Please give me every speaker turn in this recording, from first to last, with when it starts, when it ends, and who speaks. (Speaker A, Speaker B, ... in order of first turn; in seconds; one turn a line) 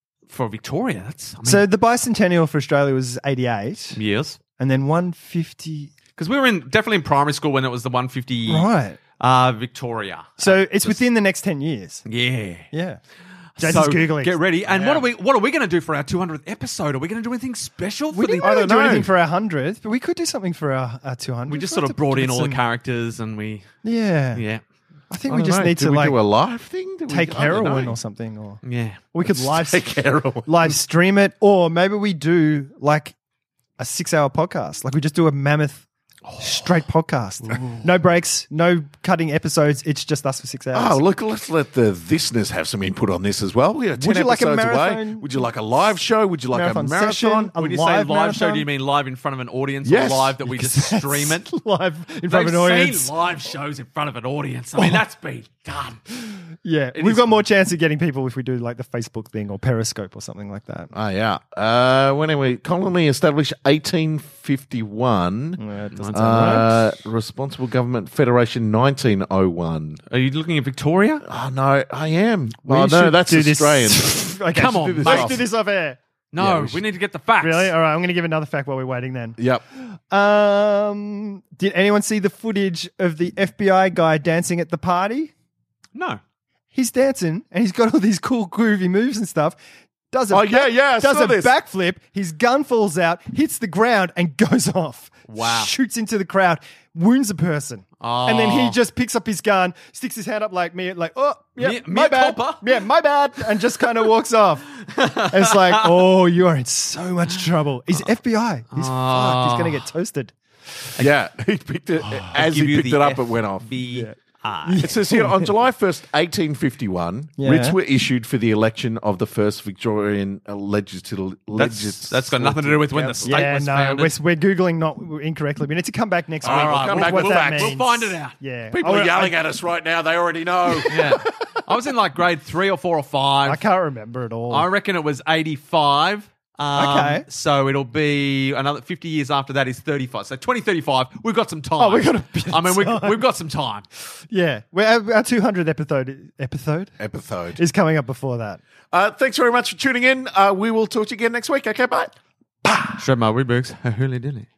Speaker A: 0.3-1.6
Speaker B: 1.4-4.0
Speaker A: 3.9-4.4
Speaker B: 4.6-5.9
Speaker A: 6.2-11.0
Speaker B: 8.5-9.0
Speaker B: 10.4-12.0
Speaker A: 12.1-12.7
Speaker B: 12.7-13.0
Speaker B: 13.6-14.3
Speaker A: 13.6-18.5
Speaker C: 14.6-15.1
Speaker B: 18.1-22.6
Speaker C: 18.4-19.1
Speaker A: 21.5-23.8
Speaker B: 23.8-24.4
Speaker A: 24.3-24.6
Speaker B: 25.1-26.2
Speaker C: 25.3-28.0
Speaker B: 27.1-28.6
Speaker A: 28.6-29.0
Speaker B: 29.1-33.1
Speaker C: 29.2-30.5
Speaker B: 33.8-35.9
Speaker A: 36.2-36.6
Speaker B: 36.4-41.0
Speaker A: 37.5-37.8
Speaker C: 40.7-47.5
Speaker B: 44.0-45.3
Speaker B: 46.5-48.6
Speaker A: 47.5-51.5
Speaker C: 49.8-50.4
Speaker B: 50.5-53.1
Speaker A: 52.3-56.2
Speaker B: 54.8-55.0
Speaker B: 56.6-60.9
Speaker A: 56.9-57.4
Speaker C: 60.9-65.6
Speaker B: 65.6-66.7
Speaker A: 66.0-66.6
Speaker C: 66.1-70.0
Speaker A: 70.1-71.2
Speaker C: 71.2-75.4
Speaker B: 72.7-76.0
Speaker A: 74.5-75.4
Speaker A: 76.3-77.7
Speaker C: 76.4-76.8
Speaker B: 77.4-85.3
Speaker C: 79.4-79.6
Speaker A: 85.9-86.2
Speaker B: 86.7-89.6
Speaker B: 90.1-110.3
Speaker C: 90.3-91.5
Speaker A: 95.3-95.7
Speaker A: 98.0-98.8
Speaker A: 101.6-102.8
Speaker A: 104.9-106.1
Speaker A: 108.7-109.8
Speaker C: 111.0-113.7
Speaker A: 112.0-114.9
Speaker B: 113.9-115.5
Speaker C: 114.8-123.3
Speaker B: 117.4-117.8
Speaker A: 121.6-124.1
Speaker B: 123.3-129.3
Speaker C: 126.4-127.8
Speaker A: 126.4-128.3
Speaker C: 128.7-131.3
Speaker A: 130.9-133.6
Speaker B: 133.4-134.7
Speaker A: 134.5-143.8
Speaker B: 136.7-137.2
Speaker B: 141.8-143.2
Speaker B: 144.3-146.9
Speaker C: 147.0-147.6
Speaker B: 147.6-148.6
Speaker C: 148.9-152.1
Speaker B: 152.6-153.0
Speaker A: 152.9-154.5